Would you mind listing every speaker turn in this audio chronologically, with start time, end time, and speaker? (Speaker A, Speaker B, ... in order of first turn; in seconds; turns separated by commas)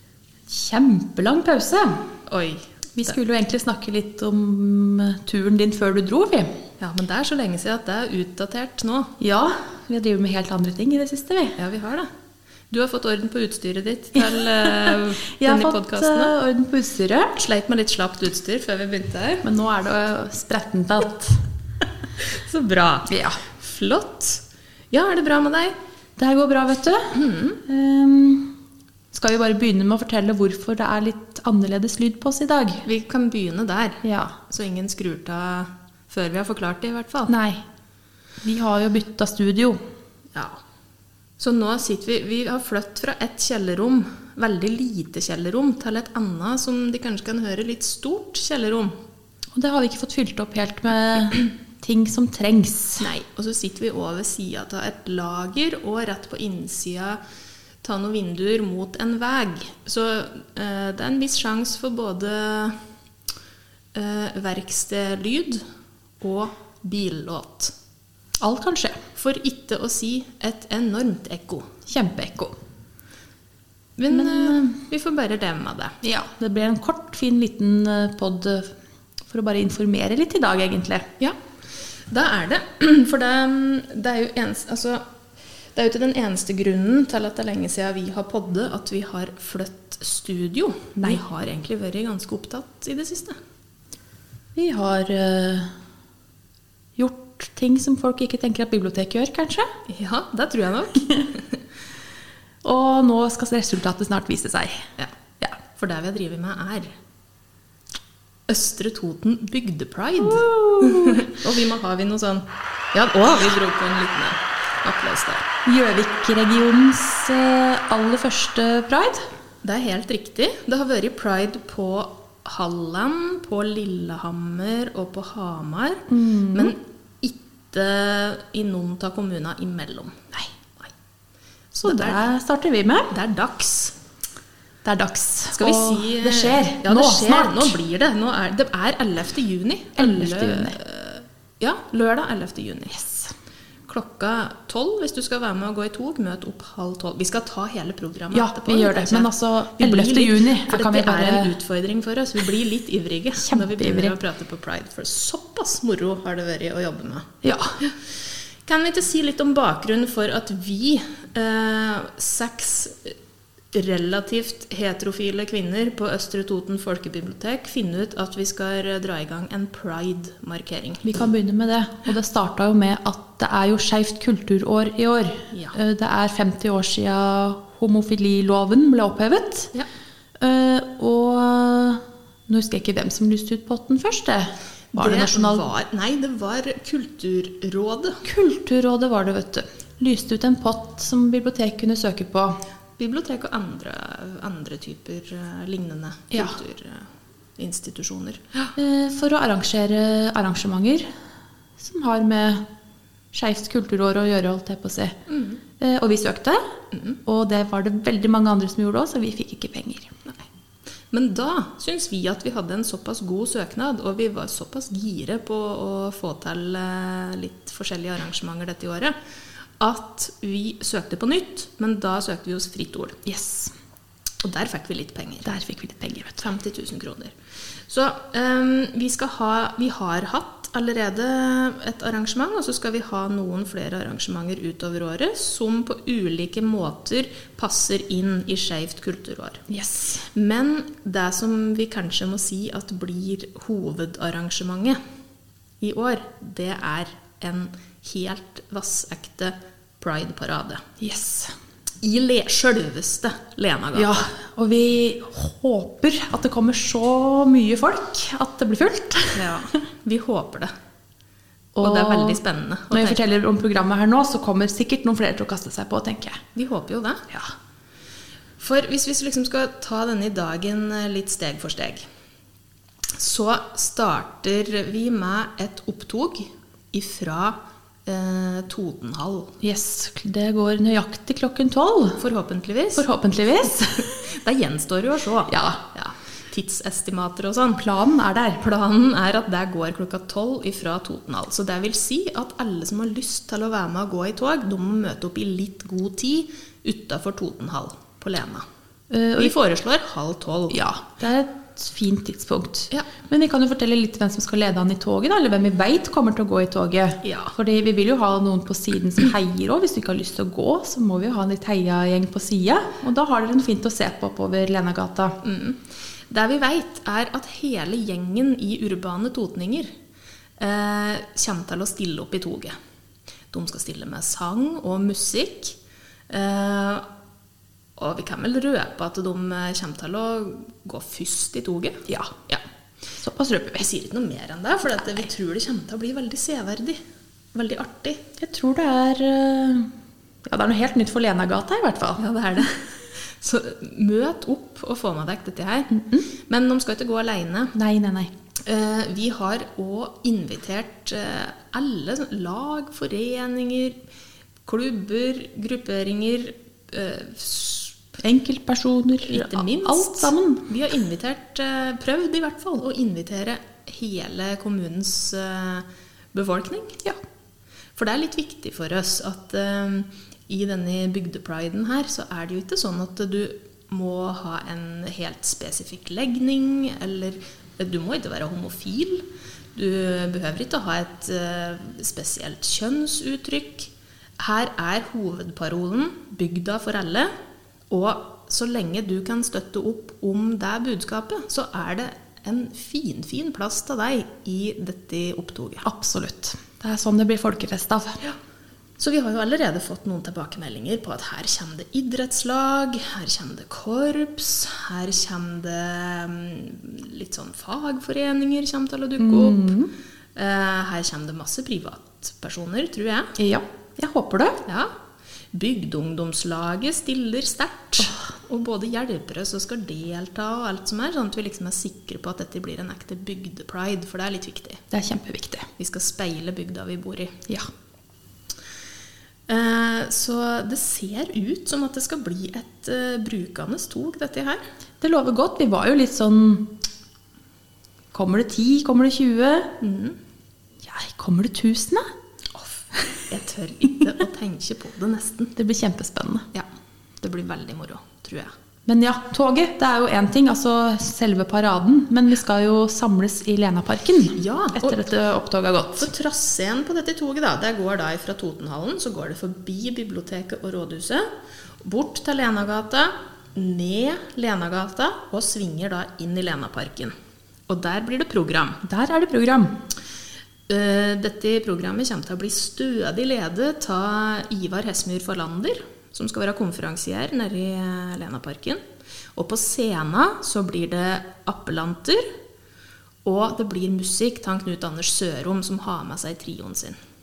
Speaker A: 0.5-2.1, Speaker B: 2.3-3.2, Speaker A: 3.0-6.6, Speaker B: 6.8-9.1, Speaker A: 9.2-11.6, Speaker B: 11.6-12.1, Speaker B: 12.7-16.4, Speaker A: 14.2-17.4, Speaker B: 17.4-19.5, Speaker A: 19.4-21.4, Speaker B: 22.2-25.8, Speaker A: 23.1-23.4, Speaker A: 26.2-28.5, Speaker B: 27.1-27.6, Speaker A: 29.1-32.9, Speaker B: 32.8-37.3, Speaker A: 34.0-34.4, Speaker A: 37.3-37.6, Speaker A: 38.4-39.8, Speaker B: 40.3-40.6, Speaker B: 41.4-48.9, Speaker A: 49.5-53.1, Speaker B: 53.0-57.2, Speaker B: 57.8-62.8, Speaker B: 63.9-65.6, Speaker B: 66.2-67.7, Speaker A: 68.4-69.0, Speaker B: 69.1-71.8, Speaker A: 71.9-72.5, Speaker B: 74.0-76.0, Speaker A: 74.1-74.8, Speaker A: 76.0-78.7, Speaker A: 79.3-81.1, Speaker B: 82.1-85.0, Speaker B: 85.8-93.4, Speaker A: 94.6-95.7, Speaker A: 97.0-99.7, Speaker B: 99.9-101.4, Speaker A: 102.6-104.8, Speaker B: 105.8-106.9, Speaker B: 108.5-115.5, Speaker A: 110.2-111.3, Speaker A: 115.7-119.2, Speaker B: 119.6-130.2, Speaker A: 126.1-126.7, Speaker B: 131.7-132.3, Speaker A: 131.8-133.1, Speaker B: 133.1-134.0, Speaker A: 134.8-137.8, Speaker B: 135.5-143.0, Speaker A: 140.0-140.8, Speaker A: 143.0-143.3, Speaker B: 143.9-157.3, Speaker A: 148.3-151.6, Speaker A: 153.4-154.2, Speaker A: 157.4-157.8, Speaker B: 158.7-163.2, Speaker B: 163.7-171.1, Speaker A: 171.0-179.7, Speaker A: 180.4-185.6, Speaker B: 184.9-188.2, Speaker A: 188.2-192.6, Speaker B: 193.0-198.7, Speaker A: 196.3-196.6, Speaker A: 198.8-201.1, Speaker A: 201.8-202.6, Speaker A: 203.3-205.2, Speaker B: 205.3-205.6, Speaker A: 205.8-206.6, Speaker B: 206.9-207.2, Speaker A: 207.3-210.1, Speaker B: 211.1-219.2, Speaker B: 219.8-223.2, Speaker A: 223.3-223.7, Speaker B: 224.4-225.6, Speaker A: 225.4-226.5, Speaker B: 226.4-227.4, Speaker B: 227.9-239.7, Speaker A: 239.7-240.2, Speaker B: 240.3-245.0, Speaker B: 245.8-250.8, Speaker A: 251.0-251.5, Speaker B: 252.0-254.3, Speaker A: 253.9-259.8, Speaker B: 259.4-260.7, Speaker A: 261.8-262.4, Speaker B: 261.8-263.3, Speaker A: 262.9-266.4, Speaker B: 266.6-267.2, Speaker B: 268.6-272.0, Speaker B: 273.2-279.6, Speaker A: 279.6-282.2, Speaker B: 282.2-283.1, Speaker A: 283.0-284.3, Speaker B: 284.3-287.8, Speaker A: 285.5-285.8, Speaker A: 287.8-288.6, Speaker B: 288.6-298.6, Speaker A: 299.1-299.6, Speaker B: 299.4-300.8, Speaker A: 300.7-315.4, Speaker B: 307.2-307.5, Speaker B: 315.4-319.9, Speaker B: 320.6-322.8, Speaker B: 323.5-325.8, Speaker B: 326.3-327.1, Speaker B: 328.0-332.6, Speaker A: 333.2-333.9, Speaker B: 333.8-337.0, Speaker B: 337.5-338.2, Speaker A: 338.4-339.9, Speaker A: 340.5-342.2, Speaker B: 342.2-347.7, Speaker A: 345.9-346.3, Speaker A: 347.8-348.3, Speaker B: 348.7-354.0, Speaker B: 354.7-358.0, Speaker A: 358.2-360.7, Speaker B: 359.2-367.0, Speaker B: 368.0-387.3, Speaker B: 387.9-395.9, Speaker A: 395.8-398.2, Speaker B: 399.0-409.7, Speaker A: 409.2-409.9, Speaker B: 410.4-413.3, Speaker A: 413.4-414.6, Speaker B: 414.7-414.9, Speaker B: 415.5-424.8, Speaker A: 424.9-425.7, Speaker B: 425.8-427.4, Speaker B: 429.5-434.6, Speaker A: 435.0-436.8, Speaker A: 438.1-439.7, Speaker B: 439.8-440.2, Speaker A: 440.8-442.1, Speaker B: 442.6-445.5, Speaker A: 445.6-446.5, Speaker B: 447.2-448.5, Speaker A: 448.9-456.1, Speaker B: 454.4-455.1, Speaker B: 456.0-461.3, Speaker B: 461.8-467.1, Speaker B: 467.7-468.8, Speaker A: 468.8-469.7, Speaker B: 470.7-478.8, Speaker B: 479.4-482.3, Speaker B: 483.2-487.0